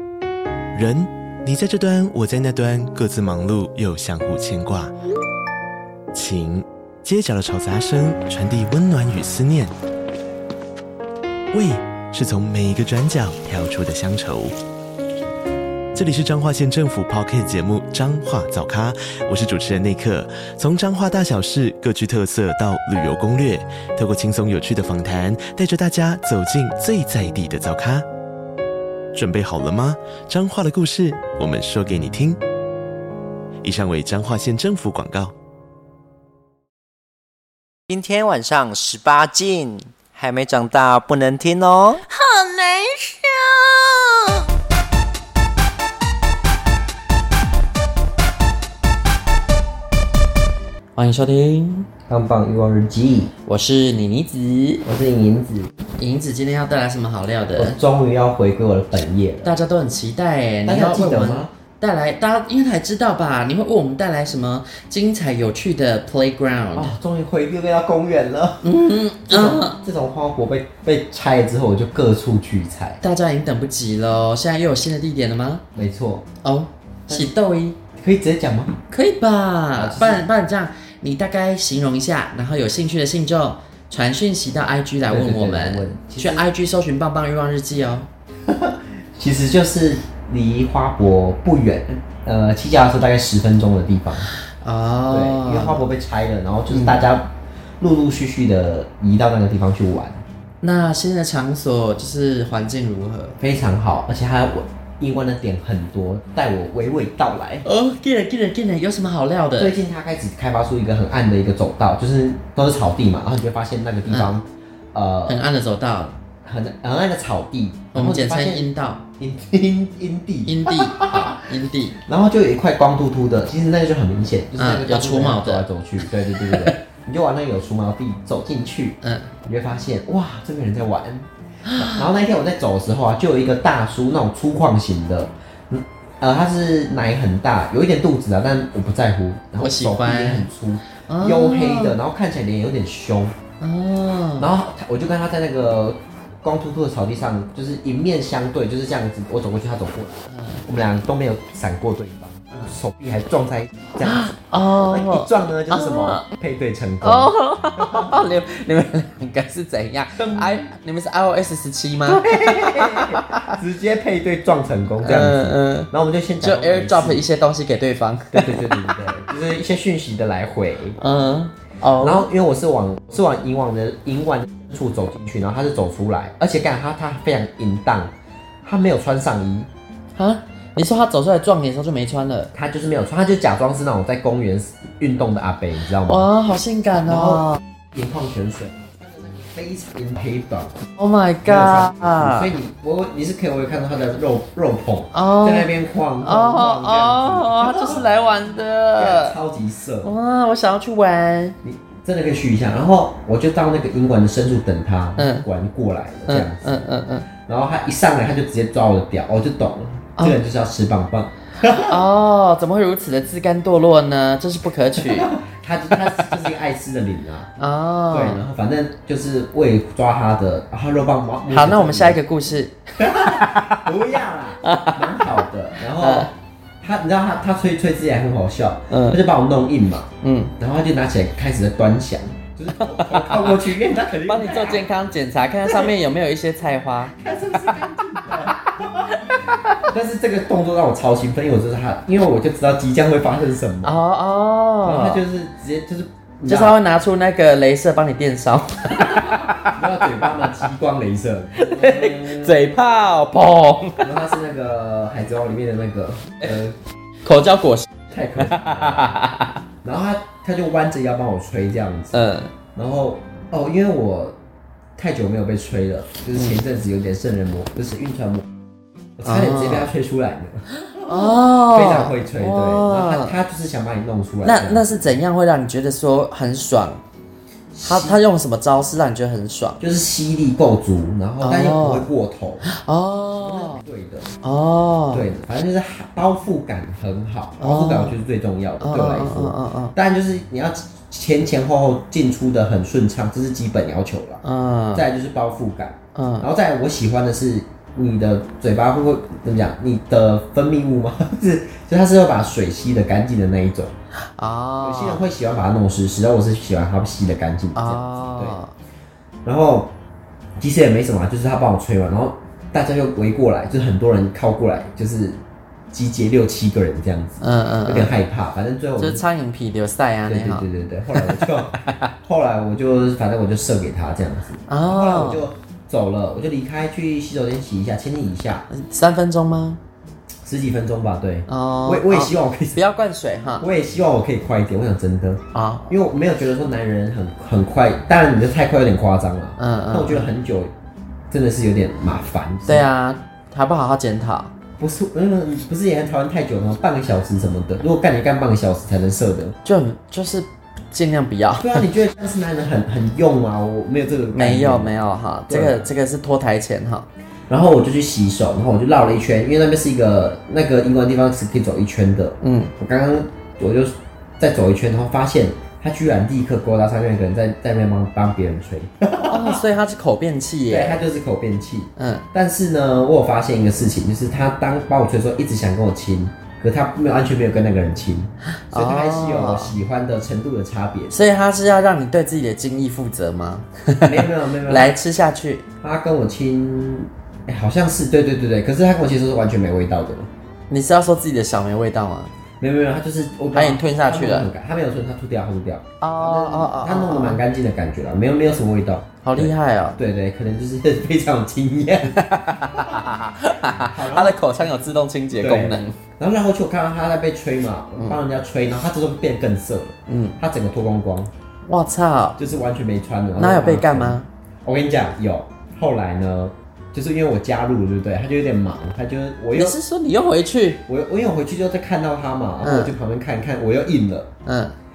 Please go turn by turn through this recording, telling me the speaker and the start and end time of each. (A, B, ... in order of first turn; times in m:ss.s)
0:00.7-0:04.9 A
0:06.1-0:09.7 A
0:11.5-0:14.5 A
0:15.9-0:28.0 A
0:29.1-0:32.4 A
0:33.6-0:35.3 A
0:37.9-0:42.0 B
0:42.1-0:44.5 C
0:51.0-0:51.9 D
0:52.1-0:53.3 E
0:53.4-0:54.8 D
0:54.8-0:55.7 E
0:56.0-0:57.8 D
0:57.6-0:59.6 E
0:59.4-1:06.9 D
1:00.6-1:01.5 E
1:06.7-1:13.0 E
1:08.6-1:09.8 D
1:13.0-1:15.6 D
1:15.7-1:16.2 E
1:16.4-1:17.8 D
1:18.0-1:18.8 E
1:18.9-1:28.1 D
1:19.7-1:20.2 E
1:25.1-1:26.4 E
1:28.4-1:34.3 E
1:34.6-1:35.8 D
1:35.1-1:37.3 E
1:36.7-1:37.1 D
1:37.8-1:40.2 E
1:40.6-1:43.4 D
1:43.4-1:47.6 E
1:47.6-1:49.7 D
1:49.6-1:55.4 E
1:55.3-1:56.2 D
1:56.4-2:01.4 E
1:57.9-1:59.0 D
2:00.4-2:02.0 D
2:02.0-2:23.4 E
2:04.6-2:05.6 D
2:06.4-2:06.7 D
2:09.0-2:09.3 D
2:11.6-2:12.1 D
2:19.6-2:20.5 D
2:21.0-2:22.0 D
2:23.6-2:24.5 D
2:24.4-2:38.1 E
2:30.3-2:30.6 D
2:34.0-2:36.3 D
2:37.0-2:43.6 D
2:40.2-2:40.6 E
2:42.1-2:47.2 E
2:45.0-2:45.9 D
2:46.4-2:49.0 D
2:48.3-2:51.0 E
2:51.0-2:52.2 D
2:52.0-2:59.7 E
3:00.2-3:02.5 D
3:02.5-3:06.3 E
3:06.0-3:07.6 D
3:06.9-3:10.8 E
3:11.0-3:12.5 D
3:11.4-3:18.0 E
3:15.1-3:15.7 D
3:16.2-3:19.3 D
3:19.0-3:20.1 E
3:20.0-3:21.6 D
3:21.6-3:26.8 E
3:25.2-3:25.4 D
3:26.3-3:27.2 D
3:27.4-3:32.0 E
3:31.7-3:35.3 D
3:34.9-3:37.5 E
3:37.6-3:38.4 D
3:38.1-3:42.2 E
3:41.5-3:43.9 D
3:43.0-3:54.9 E
3:44.6-3:46.3 D
3:48.9-3:49.2 D
3:50.2-3:50.5 D
3:52.8-3:57.2 D
3:55.6-3:56.0 E
3:57.2-4:03.9 E
3:59.2-3:59.8 D
4:03.8-4:05.2 D
4:04.8-4:06.8 E
4:06.5-4:09.8 D
4:09.0-4:12.7 E
4:11.6-4:14.1 D
4:14.0-4:16.8 E
4:17.2-4:19.6 D
4:18.1-4:19.2 E
4:19.8-4:22.2 E
4:22.1-4:22.5 D
4:22.7-4:24.4 E
4:25.0-4:28.5 E
4:29.2-4:35.1 E
4:29.2-4:29.9 D
4:30.8-4:33.4 D
4:34.4-4:37.0 D
4:37.7-4:38.2 E
4:37.8-4:39.8 D
4:39.8-4:42.6 E
4:41.4-4:42.1 D
4:42.6-4:43.8 D
4:43.4-4:44.3 E
4:44.4-4:45.2 D
4:45.1-4:54.4 E
4:47.6-4:48.2 D
4:48.8-4:49.9 D
4:54.4-4:55.0 D
4:54.9-5:03.9 E
4:56.1-4:56.5 D
5:04.3-5:05.2 D
5:04.8-5:08.6 E
5:07.8-5:08.7 D
5:09.4-5:09.9 E
5:10.6-5:15.4 E
5:15.9-5:19.2 E
5:17.4-5:18.1 D
5:19.0-5:22.1 D
5:20.3-5:28.7 E
5:24.7-5:25.4 D
5:28.7-5:29.8 D
5:30.4-5:32.8 E
5:31.5-5:33.6 D
5:33.6-5:40.7 E
5:35.5-5:35.9 D
5:39.6-5:40.3 D
5:41.3-5:42.9 E
5:42.6-5:44.5 D
5:44.8-5:49.6 E
5:49.6-5:51.8 D
5:51.6-5:54.9 E
5:54.3-5:57.1 D
5:55.5-5:55.8 E
5:57.5-6:09.6 E
6:02.4-6:02.7 D
6:09.2-6:11.0 D
6:10.7-6:21.2 E
6:12.0-6:12.2 D
6:18.7-6:19.7 D
6:21.1-6:25.6 D
6:24.0-6:24.9 E
6:25.8-6:30.3 E
6:30.7-6:32.3 D
6:32.6-6:43.0 E
6:33.5-6:34.5 D
6:36.0-6:37.4 D
6:39.2-6:40.0 D
6:42.1-6:46.0 D
6:43.8-6:44.4 E
6:45.4-6:51.3 E
6:50.1-6:50.4 D
6:51.6-6:52.4 D
6:52.4-6:59.8 E
6:53.4-6:54.3 D
6:59.5-7:00.8 D
7:00.9-7:04.3 E
7:02.6-7:02.9 D
7:04.4-7:04.7 D